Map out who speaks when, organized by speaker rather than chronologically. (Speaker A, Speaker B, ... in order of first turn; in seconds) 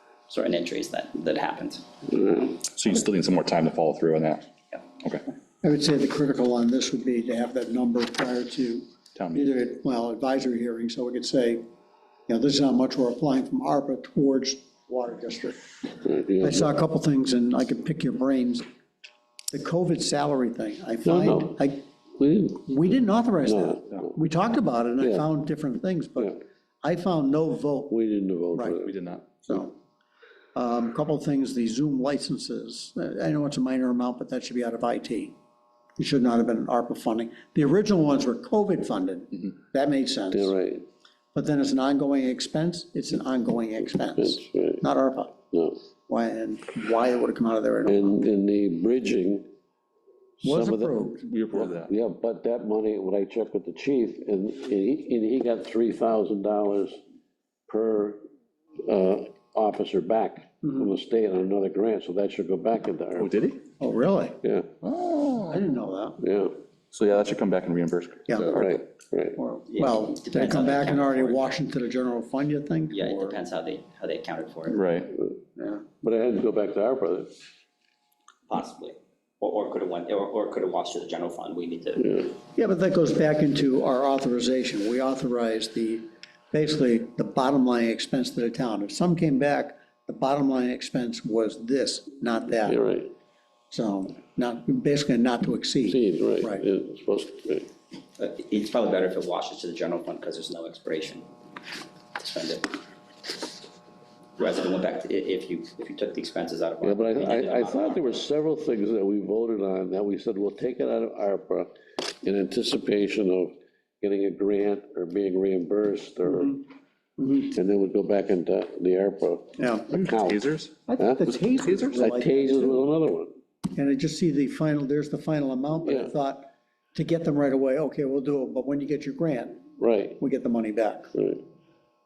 Speaker A: 0.3-2.2, 69.7-71.5, 72.9-74.8, 78.5-82.2, 98.2-101.3, 102.2-102.8, 104.4-108.2
Speaker B: 2.6-4.5, 9.2-9.5, 28.8-29.2, 51.2-51.9, 63.2-63.6, 64.8-65.6, 66.9-68.8, 74.7-75.1, 119.9-120.8, 121.7-122.0
Speaker C: 5.6-11.6, 12.3-15.6, 16.4-18.6, 19.5-21.8, 22.7-28.0, 28.5-28.8, 29.4-29.8, 30.6-35.4, 36.0-40.5, 41.3-45.3, 46.1-48.2, 50.4-51.2, 63.8-64.4, 65.5-66.2, 69.4-73.4, 75.6-75.8, 82.6-92.8, 93.7-96.7, 116.3-116.6, 117.2-117.5, 119.6-120.1, 120.9-122.8, 123.8-131.1
Speaker D: 16.0-16.7, 21.1-21.6, 22.2-22.7, 23.4-24.1, 25.0-25.3, 27.9-28.9, 40.3-40.9, 44.2-44.8, 47.9-49.5, 50.4-51.0, 51.9-57.0, 57.7-58.2, 58.8-63.3, 64.4-64.7, 66.2-66.5, 68.4-69.4, 76.0-77.3, 82.0-82.3, 92.7-93.1, 95.9-97.7, 106.8-116.6, 117.5-119.5, 120.1-120.4, 121.0-121.3, 121.9-123.3, 125.9-126.1, 129.8-130.2, 131.1-131.4